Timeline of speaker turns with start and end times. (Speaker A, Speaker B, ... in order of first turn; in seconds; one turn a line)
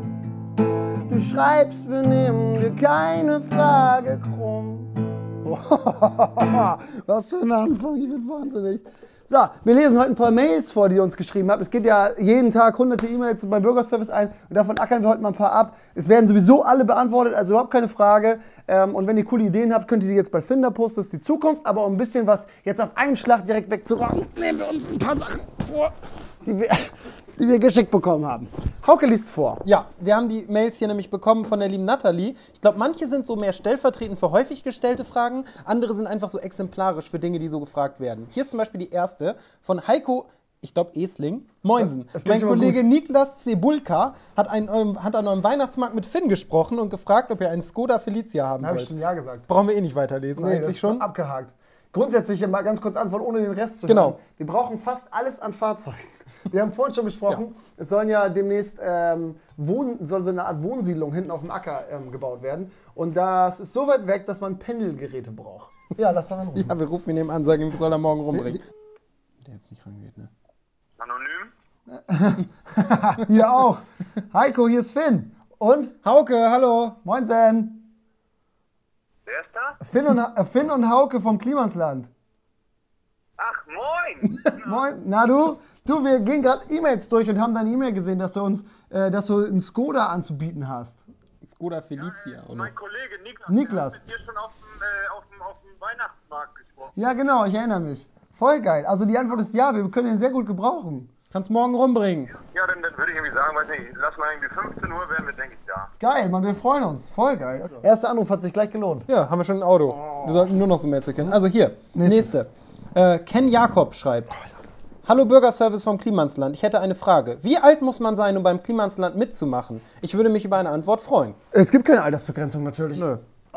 Speaker A: 1.1-4.9
Speaker A: 5.4-29.6
Speaker B: 29.6-48.9
Speaker A: 41.8-42.8
Speaker A: 48.6-49.5
Speaker B: 49.5-51.1
Speaker A: 50.4-66.8
Speaker B: 53.9-54.2
Speaker B: 66.5-68.7
Speaker B: 69.4-70.3
Speaker C: 71.0-71.5
Speaker A: 71.9-76.0
Speaker B: 72.9-73.3
Speaker B: 76.0-77.0
Speaker A: 77.0-77.8
Speaker C: 79.3-79.8
Speaker A: 79.8-82.1
Speaker C: 83.4-84.5
Speaker A: 84.5-91.0
Speaker B: 91.4-92.8
Speaker C: 92.3-97.0
Speaker A: 93.5-94.1
Speaker A: 97.0-101.1
Speaker B: 101.3-102.4
Speaker C: 102.4-105.9
Speaker A: 106.0-109.1
Speaker B: 109.1-114.5
Speaker A: 111.9-112.3
Speaker B: 115.0-121.4
Speaker A: 121.5-123.0
Speaker B: 123.0-123.2